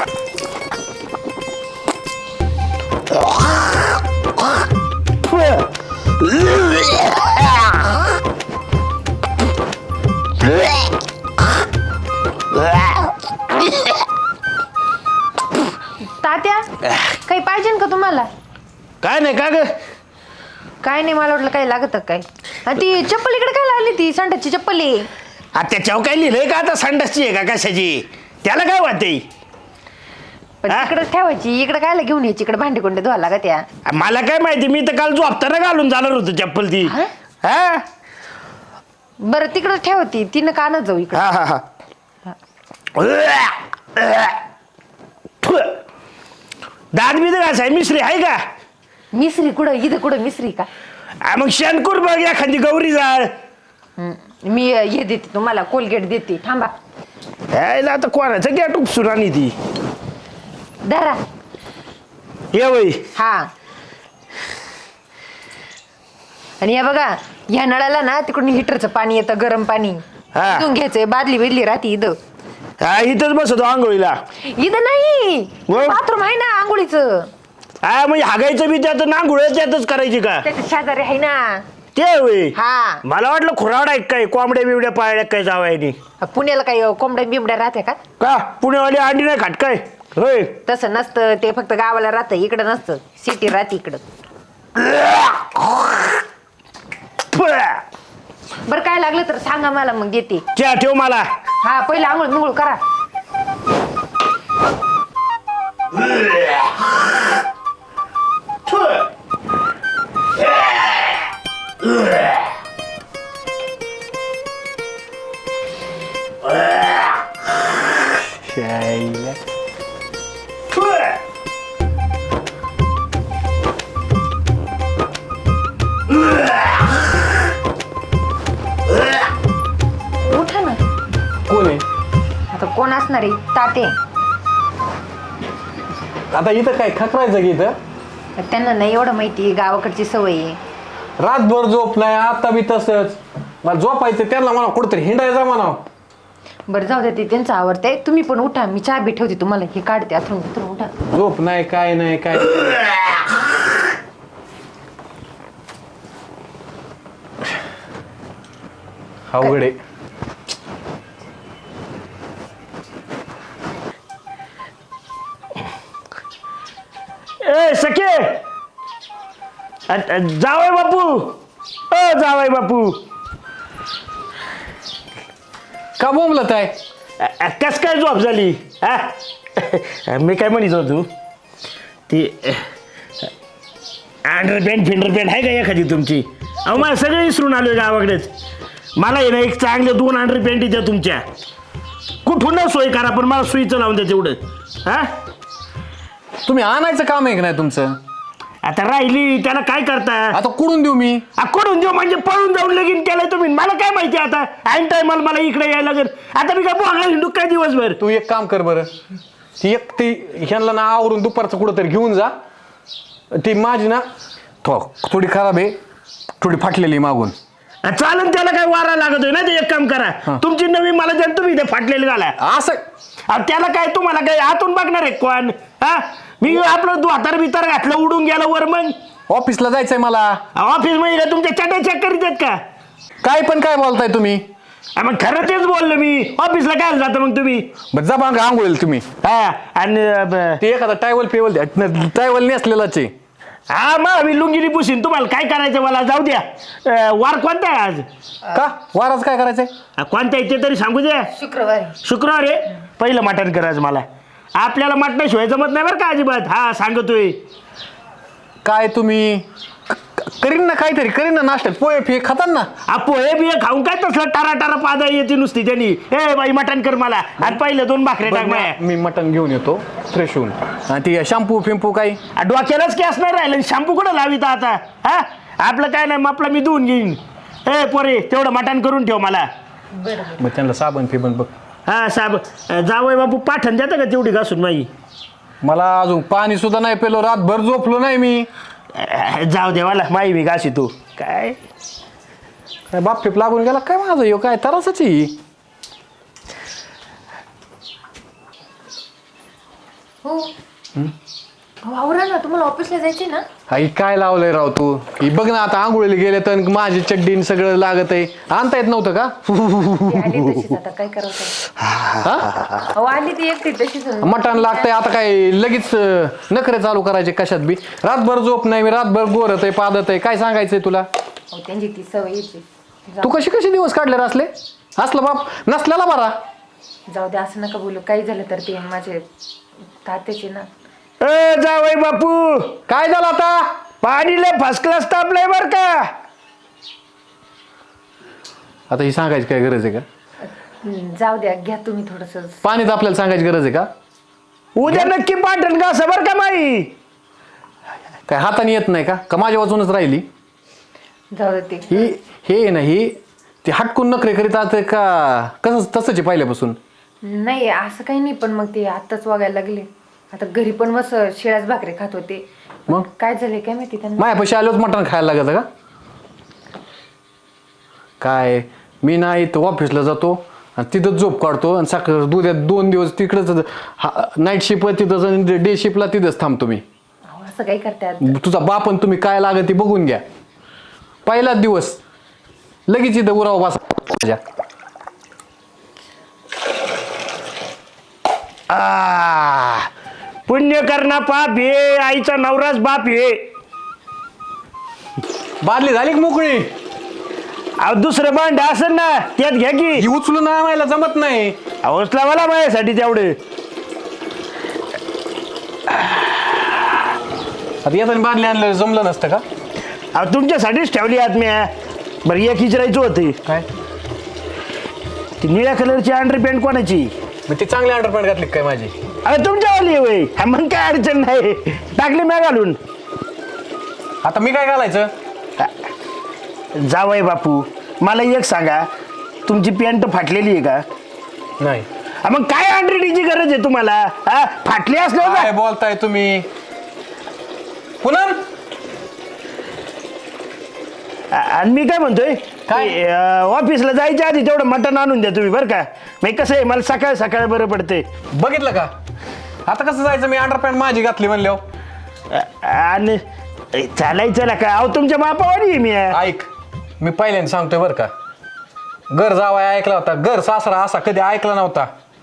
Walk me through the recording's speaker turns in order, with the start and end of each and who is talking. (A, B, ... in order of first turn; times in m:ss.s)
0:05.3-0:05.7 A
0:06.3-0:07.5 A
0:12.5-0:13.1 A
0:16.1-0:18.3 B
0:19.0-0:19.7 A
0:20.8-0:25.1 B
0:25.5-0:29.2 A
0:30.6-0:33.6 B
0:33.9-0:37.8 A
0:39.2-0:41.2 B
0:41.1-0:41.6 A
0:43.0-0:44.4 A
0:45.4-0:45.8 A
0:46.9-0:48.4 A
0:49.1-0:50.7 B
0:51.2-0:53.3 A
0:54.0-0:56.7 B
0:57.5-0:59.5 A
1:00.8-1:01.2 B
1:02.5-1:03.0 A
1:03.1-1:03.5 B
1:06.6-1:12.2 B
1:10.3-1:10.7 A
1:12.8-1:14.2 A
1:14.4-1:17.3 B
1:15.7-1:16.0 A
1:17.8-1:20.4 A
1:20.4-1:21.6 B
1:21.9-1:26.0 A
1:22.5-1:23.0 B
1:26.2-1:28.0 B
1:28.2-1:30.6 A
1:30.6-1:34.0 B
1:34.8-1:36.1 A
1:37.3-1:37.8 A
1:38.6-1:40.4 B
1:40.6-1:41.3 A
1:41.6-1:42.8 B
1:46.0-1:46.5 A
1:48.7-1:49.0 A
1:50.4-1:51.1 A
1:56.5-1:56.9 A
1:58.4-1:59.4 C
2:00.7-2:01.2 A
2:10.2-2:10.8 B
2:11.5-2:11.8 C
2:12.5-2:13.9 B
2:16.3-2:17.7 C
2:18.4-2:20.6 B
2:21.2-2:25.8 C
2:26.7-2:30.9 B
2:31.1-2:32.8 C
2:39.3-2:39.8 C
2:47.4-2:48.4 A
2:49.9-2:51.4 A
2:51.9-2:53.0 A
2:56.0-2:56.8 C
2:57.2-3:01.1 A
3:02.1-3:02.6 A
3:04.2-3:08.3 A
3:09.0-3:11.2 A
3:12.2-3:15.1 A
3:16.4-3:18.0 C
3:18.6-3:20.4 A
3:20.3-3:21.2 C
3:21.4-3:28.0 A
3:28.0-3:28.9 C
3:29.6-3:32.3 C
3:33.3-3:34.0 C
3:34.6-3:35.8 C
3:36.4-3:37.3 C
3:37.8-3:42.4 A
3:42.4-3:42.8 C
3:43.3-3:48.9 A
3:49.3-3:50.4 C
3:50.6-3:52.6 A
3:53.2-3:54.5 C
3:55.0-3:57.7 A
3:57.9-3:59.1 C
3:59.2-4:00.6 A
4:00.6-4:03.1 C
4:03.7-4:08.0 A
4:08.5-4:09.7 C
4:10.0-4:11.3 A
4:11.3-4:12.0 B
4:12.0-4:17.4 A
4:18.6-4:22.7 C
4:22.9-4:28.7 A
4:28.2-4:32.2 C
4:32.4-4:39.5 A
4:39.9-4:40.4 B
4:40.4-4:41.5 C
4:41.8-4:44.9 A
4:45.6-4:48.5 C
4:48.9-4:51.6 A
4:52.9-4:55.4 C
5:00.2-5:00.5 B
5:01.8-5:03.4 B
5:03.7-5:10.6 C
5:10.1-5:11.6 B
5:11.8-5:12.9 A
5:12.2-5:12.5 C
5:12.9-5:14.9 B
5:14.2-5:21.1 C
5:21.5-5:23.4 B
5:23.2-5:26.4 C
5:27.1-5:29.2 B
5:30.0-5:30.7 B
5:31.2-5:32.8 A
5:32.9-5:33.7 C
5:34.0-5:36.1 A
5:38.9-5:40.0 C
5:40.4-5:42.6 B
5:42.6-5:43.9 C
5:44.8-5:46.9 A
5:48.3-5:50.2 C
5:51.3-5:52.1 B
5:51.9-5:56.8 C
5:57.2-6:04.3 B
6:04.2-6:05.6 C
6:08.2-6:16.8 C
6:17.3-6:18.3 B
6:18.2-6:20.2 C
6:21.2-6:22.0 C
6:22.9-6:24.4 C
6:28.7-6:29.9 A
6:30.5-6:33.5 A
6:35.6-6:36.7 C
6:37.8-6:40.0 A
6:40.0-6:41.6 C
6:41.8-6:43.4 A
6:45.9-6:46.2 A
6:47.8-6:49.4 C
6:50.1-6:51.7 A
6:52.2-6:53.4 A
6:55.4-6:57.1 A
6:57.5-6:58.9 C
6:59.2-7:02.8 A
7:04.2-7:05.1 C
7:06.8-7:08.8 A
7:09.5-7:10.8 A
7:11.6-7:11.9 C
7:12.2-7:15.5 A
7:15.2-7:16.5 C
7:18.0-7:18.4 C
7:21.3-7:28.1 A
7:22.7-7:22.9 C
7:28.3-7:28.9 C
7:29.6-7:31.6 C
7:32.3-7:33.2 A
7:33.7-7:36.2 A
7:36.1-7:36.5 C
7:37.0-7:38.1 C
7:39.1-7:41.9 C